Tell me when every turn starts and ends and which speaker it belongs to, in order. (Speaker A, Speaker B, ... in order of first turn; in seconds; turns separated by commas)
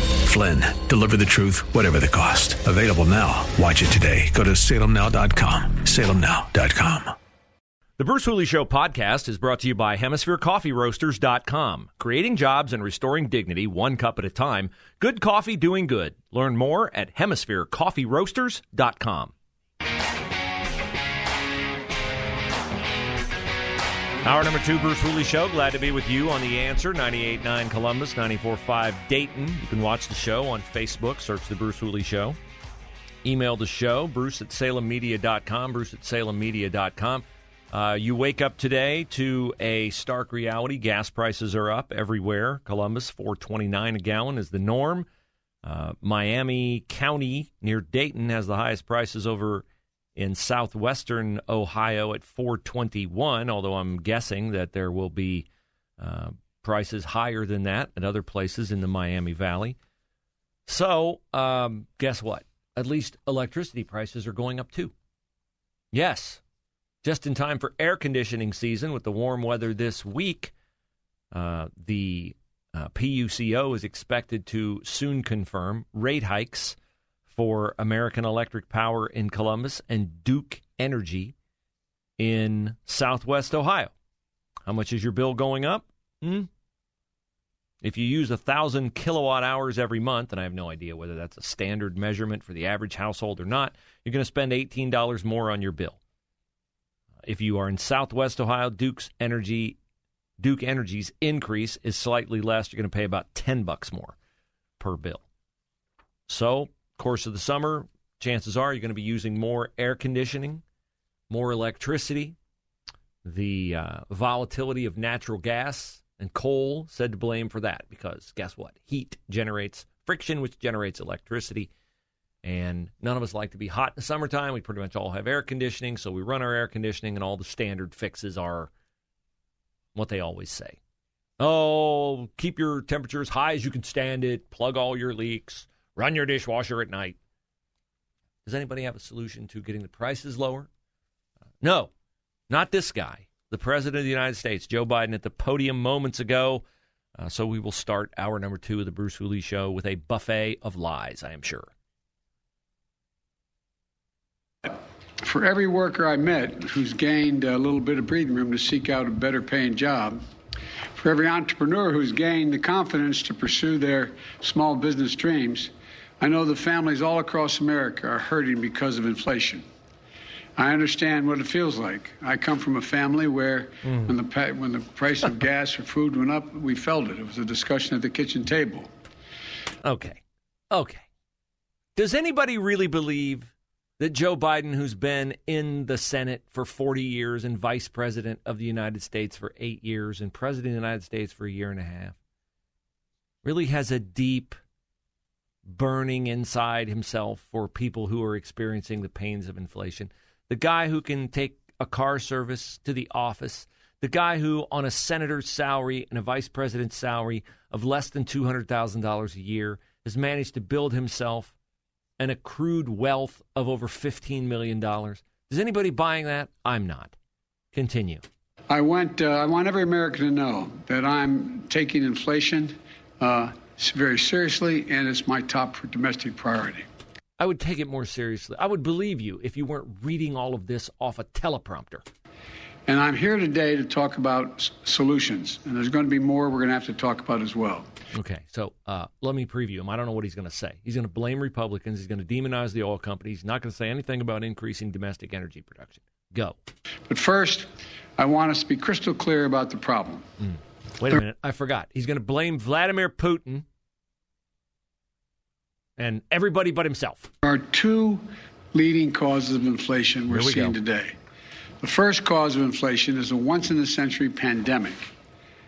Speaker A: 0.2-7.1, Speaker B: 8.0-19.3, Speaker B: 24.2-32.4, Speaker B: 33.2-45.1, Speaker B: 45.6-49.6, Speaker B: 50.2-55.5, Speaker B: 56.0-59.8, Speaker B: 60.7-64.9, Speaker B: 65.9-66.4, Speaker B: 67.0-70.5, Speaker B: 71.3-76.8, Speaker B: 77.3-81.3, Speaker B: 82.2-83.9, Speaker B: 84.7-86.5, Speaker B: 87.8-96.0, Speaker B: 97.2-99.8, Speaker B: 100.4-104.2, Speaker B: 104.8-105.3, Speaker B: 106.3-110.6, Speaker B: 111.3-112.4, Speaker B: 113.2-121.7, Speaker B: 122.4-128.7, Speaker B: 129.9-130.8, Speaker B: 131.4-137.2, Speaker B: 138.4-140.7, Speaker B: 141.6-141.9, Speaker B: 142.5-146.7, Speaker B: 147.2-151.7, Speaker C: 155.2-160.2, Speaker C: 161.0-169.7, Speaker C: 170.6-178.9, Speaker B: 179.8-180.2, Speaker B: 180.7-181.1, Speaker B: 182.0-192.2, Speaker B: 193.4-194.6, Speaker B: 195.7-211.6, Speaker B: 212.2-217.1, Speaker B: 217.7-218.2, Speaker C: 218.7-226.8, Speaker B: 227.4-232.0, Speaker C: 232.9-237.9, Speaker B: 238.1-246.6, Speaker C: 247.1-250.2, Speaker B: 250.4-253.7, Speaker B: 256.0-257.3, Speaker C: 257.4-261.1, Speaker B: 260.3-260.8, Speaker C: 261.8-265.0